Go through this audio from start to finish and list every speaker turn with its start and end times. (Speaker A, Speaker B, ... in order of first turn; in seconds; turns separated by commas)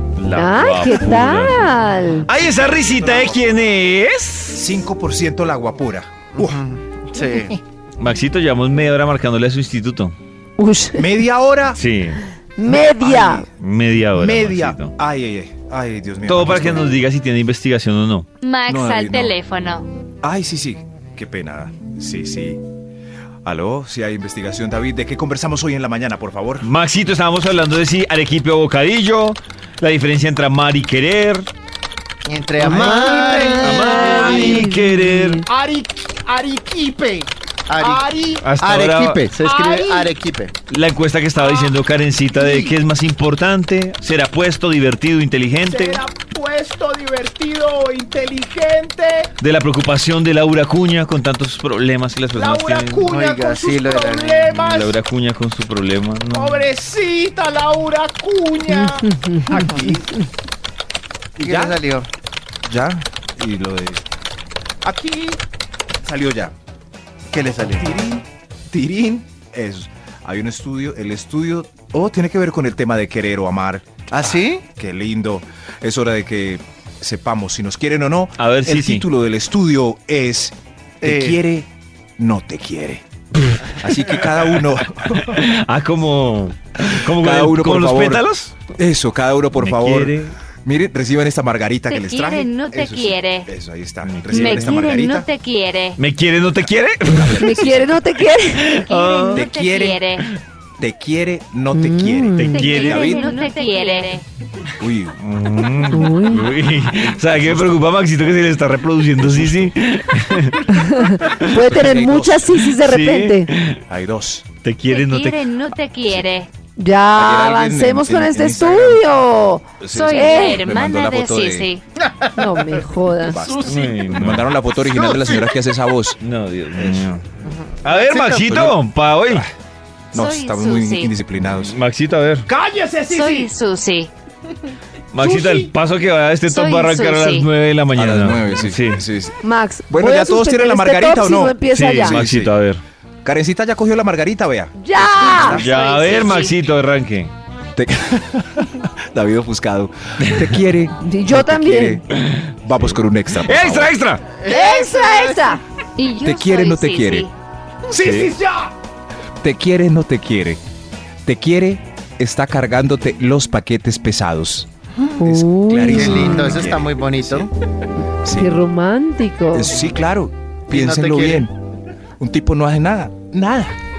Speaker A: 0.1-1.7, Speaker B: 0.3-2.3, Speaker A: 2.2-4.8, Speaker C: 3.0-3.3, Speaker D: 4.5-6.6, Speaker C: 6.4-7.6, Speaker A: 8.0-10.1, Speaker B: 10.6-11.1, Speaker D: 11.0-11.8, Speaker A: 11.8-12.2, Speaker B: 12.6-13.4, Speaker D: 12.7-13.5, Speaker A: 13.6-14.9, Speaker D: 14.1-16.9, Speaker A: 16.2-18.3, Speaker E: 18.4-19.9, Speaker D: 18.7-19.4, Speaker D: 20.2-22.6, Speaker D: 23.4-26.7, Speaker A: 26.6-31.5, Speaker C: 32.2-34.6, Speaker F: 32.9-34.5, Speaker A: 33.6-35.4, Speaker B: 33.7-35.5, Speaker F: 35.5-38.5, Speaker C: 37.7-40.5, Speaker A: 38.4-39.2, Speaker F: 39.4-40.1, Speaker A: 40.7-46.0, Speaker F: 41.4-41.7, Speaker F: 42.4-42.7, Speaker F: 45.7-49.3, Speaker A: 49.4-53.1, Speaker F: 52.3-54.9, Speaker C: 53.0-54.5, Speaker A: 54.5-56.6, Speaker F: 56.3-59.9, Speaker B: 58.9-59.7, Speaker D: 59.5-60.1, Speaker D: 61.4-61.8, Speaker C: 61.4-62.1, Speaker D: 62.6-64.0, Speaker D: 64.8-65.4, Speaker D: 66.0-66.5, Speaker C: 67.3-67.9, Speaker D: 67.8-83.0, Speaker C: 74.1-74.6, Speaker A: 78.4-79.0, Speaker C: 81.0-81.4, Speaker A: 83.4-88.6, Speaker D: 83.7-85.4, Speaker D: 87.1-95.3, Speaker A: 89.6-90.4, Speaker E: 91.9-93.5, Speaker A: 94.0-94.8, Speaker E: 94.3-96.0, Speaker A: 96.0-97.7, Speaker D: 97.0-97.9, Speaker B: 97.4-98.8, Speaker A: 98.5-99.5, Speaker E: 98.8-100.3, Speaker D: 99.3-100.1, Speaker D: 100.8-103.3, Speaker B: 101.7-102.7, Speaker E: 102.4-104.2, Speaker A: 102.5-103.2, Speaker B: 103.4-103.9, Speaker D: 104.8-105.2, Speaker A: 105.2-110.7, Speaker B: 105.9-106.5, Speaker D: 106.9-107.9, Speaker D: 109.2-109.8, Speaker B: 110.7-113.5, Speaker D: 111.4-112.6, Speaker A: 112.7-113.8, Speaker D: 113.9-114.5, Speaker A: 114.6-115.5, Speaker E: 114.9-116.5, Speaker B: 116.8-120.6, Speaker D: 117.1-119.0, Speaker D: 119.8-121.7, Speaker E: 119.8-121.8, Speaker C: 122.0-122.7, Speaker B: 122.3-123.4, Speaker D: 123.2-126.2, Speaker C: 123.4-124.0, Speaker A: 123.6-124.5, Speaker C: 124.8-125.5, Speaker A: 126.2-127.2, Speaker D: 126.7-127.1, Speaker C: 127.4-128.5, Speaker A: 127.8-129.4, Speaker D: 128.4-129.5, Speaker E: 130.1-131.1, Speaker D: 130.1-131.8, Speaker A: 131.6-132.4, Speaker F: 132.5-133.5, Speaker E: 133.1-134.1, Speaker A: 135.1-139.0, Speaker F: 135.2-135.7, Speaker E: 136.5-137.5, Speaker D: 137.9-142.5, Speaker B: 139.4-142.2, Speaker A: 141.7-142.8, Speaker D: 143.2-146.3, Speaker B: 144.8-145.6, Speaker A: 145.3-147.3, Speaker E: 145.6-146.5, Speaker D: 147.7-152.1, Speaker B: 151.0-152.0, Speaker A: 152.2-154.2, Speaker D: 152.6-153.9, Speaker C: 154.3-155.5, Speaker B: 154.5-155.6, Speaker E: 156.0-157.3, Speaker D: 156.2-157.3, Speaker D: 157.9-158.7, Speaker A: 157.9-158.3, Speaker D: 159.4-160.6, Speaker D: 161.2-167.5, Speaker B: 165.2-166.7, Speaker C: 165.9-167.5, Speaker D: 168.2-168.6, Speaker B: 168.2-169.7, Speaker D: 169.5-171.6, Speaker C: 170.7-171.5, Speaker D: 172.2-173.7